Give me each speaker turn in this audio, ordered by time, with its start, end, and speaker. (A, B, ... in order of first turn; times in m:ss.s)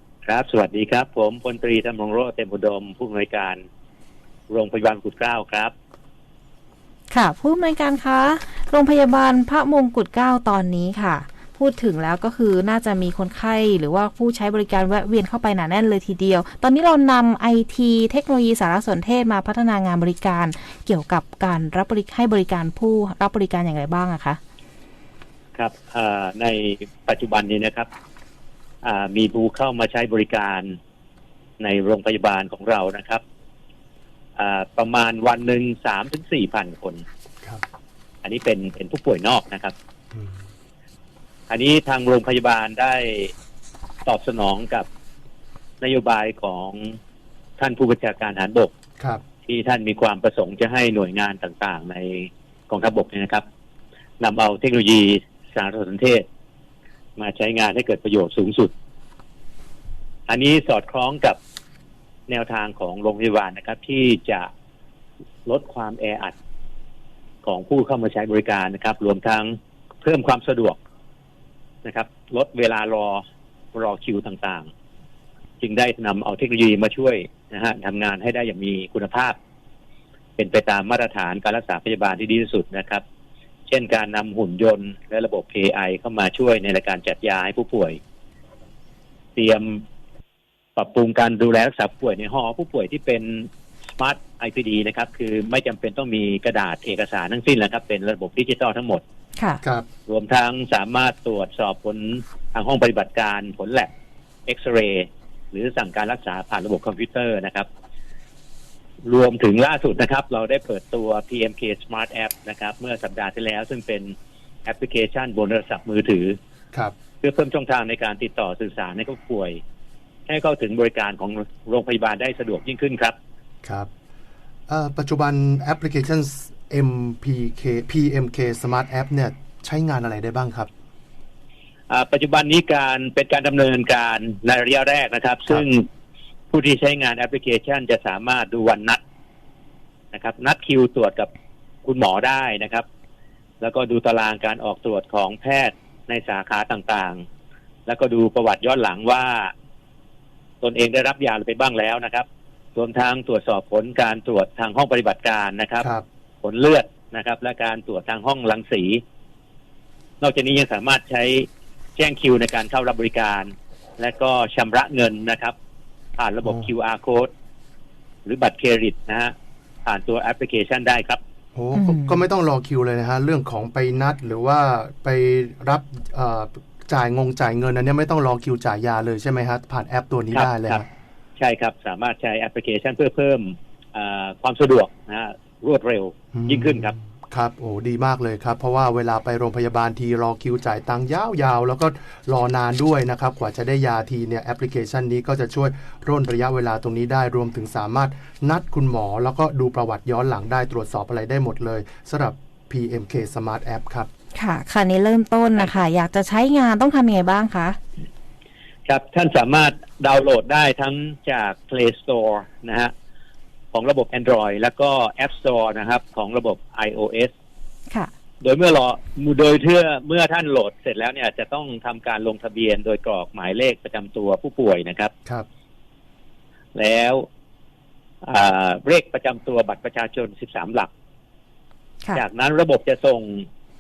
0:00.3-0:03.6 A
0:04.5-0:05.7 A
0:07.1-0:24.4 B
0:25.6-0:27.9 A
0:28.8-0:30.8 A
0:31.6-0:33.2 A
0:34.4-0:37.0 A
0:38.2-0:39.7 A
0:40.1-0:40.4 C
0:41.5-0:43.3 A
0:44.1-0:44.9 A
0:45.8-0:47.0 A
0:47.6-0:48.7 A
0:49.5-0:53.4 A
0:54.2-0:56.2 A
0:57.2-0:58.7 A
1:00.3-1:01.4 A
1:02.3-1:04.5 A
1:05.5-1:06.3 A
1:07.4-1:10.8 A
1:11.8-1:13.2 A
1:13.7-1:14.7 A
1:15.6-1:19.4 A
1:20.4-1:23.0 A
1:23.7-1:28.0 A
1:29.4-1:29.8 A
1:30.8-1:39.0 A
1:40.1-1:43.9 A
1:44.5-1:47.7 A
1:49.0-1:54.1 A
1:54.7-1:56.4 A
1:57.2-1:59.6 A
2:00.3-2:03.2 A
2:03.6-2:03.9 C
2:04.7-2:10.7 C
2:11.9-2:15.9 A
2:16.5-2:19.0 A
2:20.1-2:21.3 A
2:21.8-2:22.8 A
2:23.6-2:27.2 A
2:27.9-2:29.5 A
2:30.6-2:32.2 A
2:32.8-2:35.9 A
2:35.8-2:36.0 C
2:36.4-2:39.0 A
2:40.2-2:45.6 A
2:46.2-2:47.3 A
2:48.3-2:49.3 A
2:49.9-2:51.2 A
2:51.6-3:00.9 C
2:51.8-2:52.2 B
3:00.3-3:00.8 A
3:01.4-3:06.9 A
3:06.3-3:24.1 C
3:24.4-3:27.8 B
3:28.9-3:32.9 A
3:33.7-3:37.3 A
3:38.4-3:45.1 A
3:46.8-3:47.3 A
3:48.2-3:50.9 A
3:52.1-3:53.5 A